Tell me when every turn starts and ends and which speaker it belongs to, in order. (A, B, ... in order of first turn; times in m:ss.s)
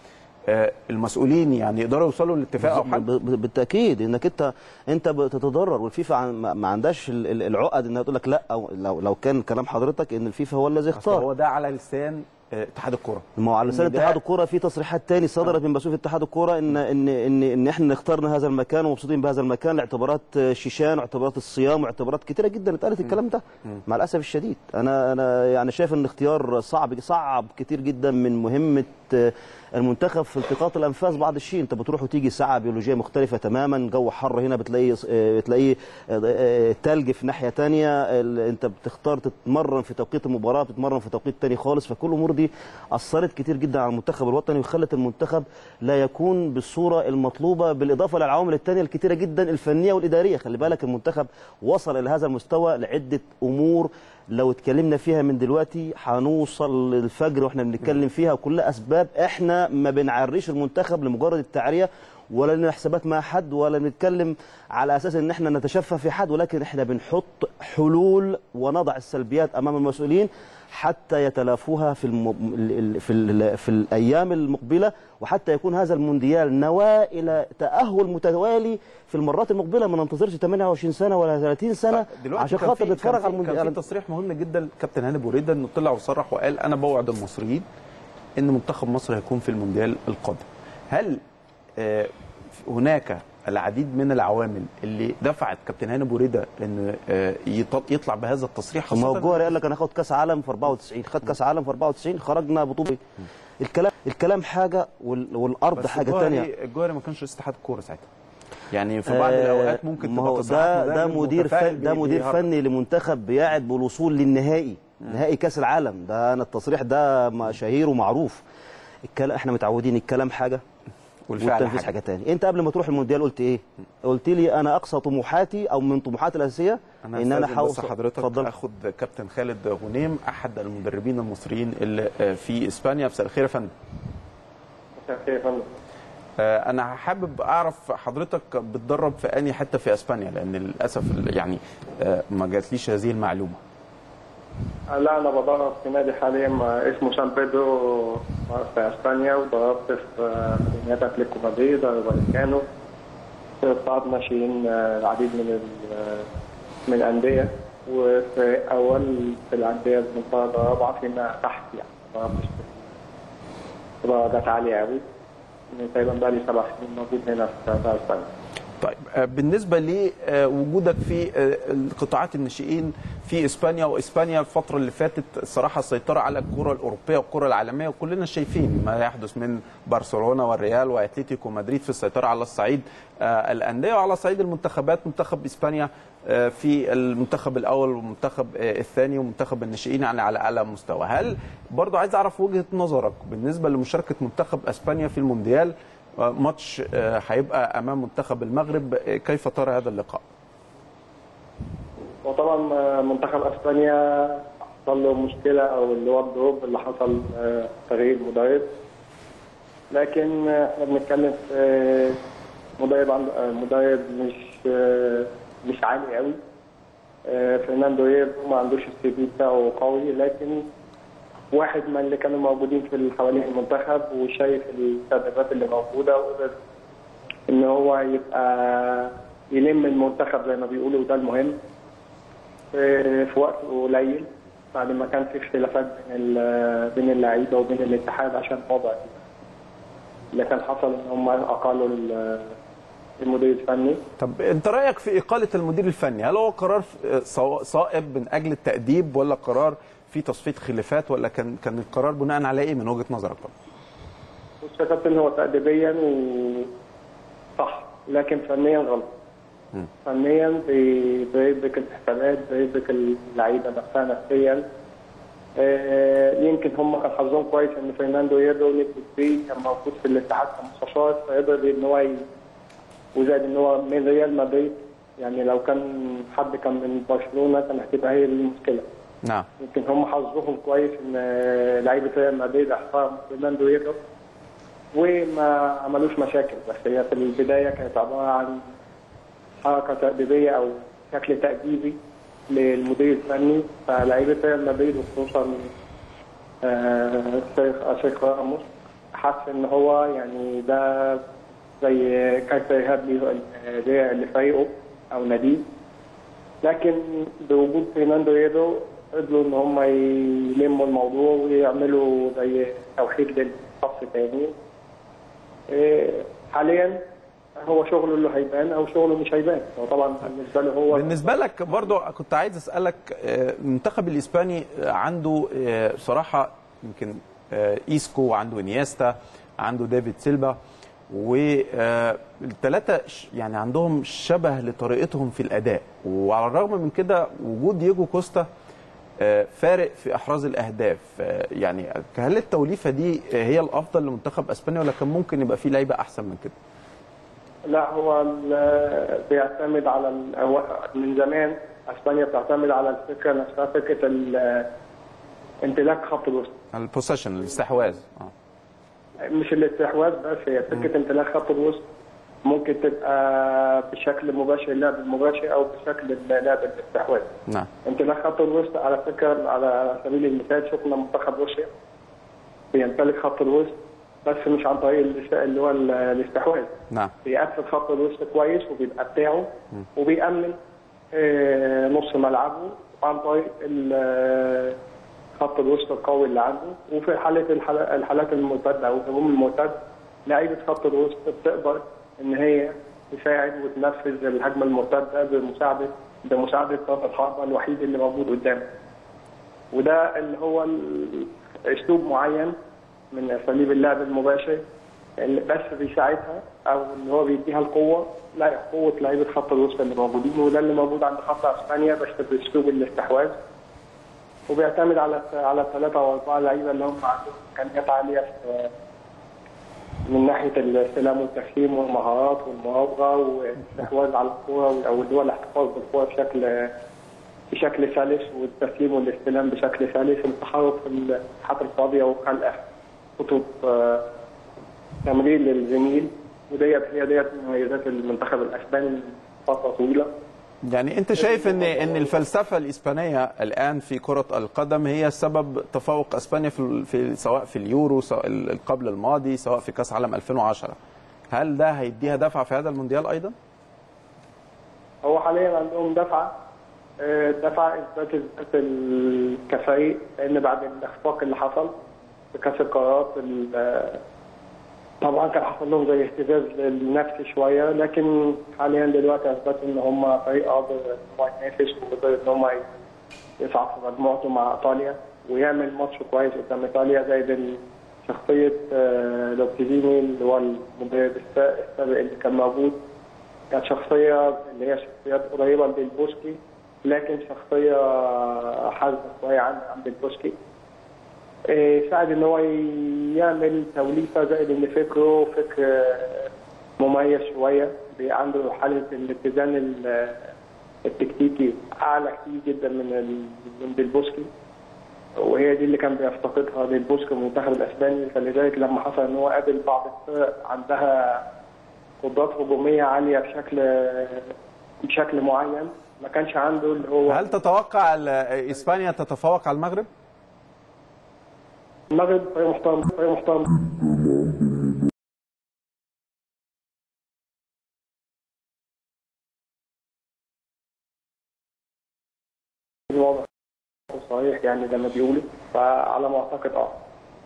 0:00.5-0:03.1 A
0:02.6-0:11.2 B
0:10.9-0:14.2 A
0:13.4-1:23.8 B
1:21.9-1:27.6 A
1:28.4-1:31.2 A
1:31.8-1:32.1 A
1:32.6-1:39.6 A
1:38.9-1:43.0 B
1:43.6-1:46.5 B
1:45.7-1:48.1 A
1:48.7-1:52.5 A
1:49.1-1:58.4 B
1:59.1-2:00.6 B
2:01.3-2:02.0 A
2:01.4-2:08.5 B
2:07.0-2:13.7 A
2:15.0-2:15.7 C
2:16.4-2:23.6 A
2:24.9-2:32.6 C
2:33.6-2:36.3 C
2:36.9-2:42.8 C
2:44.0-2:45.0 C
2:45.7-2:48.3 C
2:48.8-3:20.2 A
3:22.2-3:28.7 C
3:29.9-3:32.2 C
3:32.8-3:36.4 C
3:37.3-3:40.6 C
3:41.5-3:46.6 C
3:47.5-3:51.6 C
3:52.7-3:59.2 C
4:00.3-4:02.5 C
4:03.2-4:04.0 C
4:04.2-4:13.5 A
4:14.6-4:16.7 C
4:17.6-4:19.1 C
4:20.0-4:24.6 C
4:25.6-4:32.2 C
4:33.1-4:38.8 C
4:39.6-4:44.0 C
4:44.9-4:48.6 C
4:49.6-4:52.0 C
4:52.5-4:55.7 C
4:56.6-5:01.2 C
5:01.8-5:05.6 C
5:06.6-5:14.5 C
5:15.7-5:17.0 C
5:17.6-5:21.4 C
5:20.9-5:30.6 A
5:31.1-5:38.5 A
5:39.2-5:46.5 A
5:47.7-5:54.7 C
5:55.6-5:56.5 C
5:56.7-5:58.3 A
5:59.3-6:01.8 C
6:02.4-6:07.3 C
6:07.8-6:11.7 C
6:12.7-6:16.7 C
6:17.2-6:20.6 C
6:21.1-6:24.8 C
6:25.4-6:38.6 C
6:39.7-6:42.6 C
6:43.1-6:44.6 C
6:45.2-6:53.4 C
6:54.5-6:58.7 C
7:00.1-7:06.7 C
7:07.5-7:12.6 C
7:13.2-7:14.1 C
7:15.0-7:20.1 C
7:20.6-7:30.8 A
7:21.2-7:21.9 C
7:31.3-7:33.3 A
7:35.0-7:36.3 C
7:37.0-7:41.7 C
7:42.3-7:44.0 C
7:45.0-7:52.7 C
7:53.4-8:02.8 C
8:03.5-8:10.4 C
8:11.5-8:20.2 C
8:20.8-8:24.3 C
8:25.2-8:31.2 C
8:32.0-8:34.3 C
8:34.8-8:37.3 C
8:37.1-8:39.9 A
8:41.9-8:43.6 C
8:52.9-8:53.3 C
8:53.9-8:56.8 C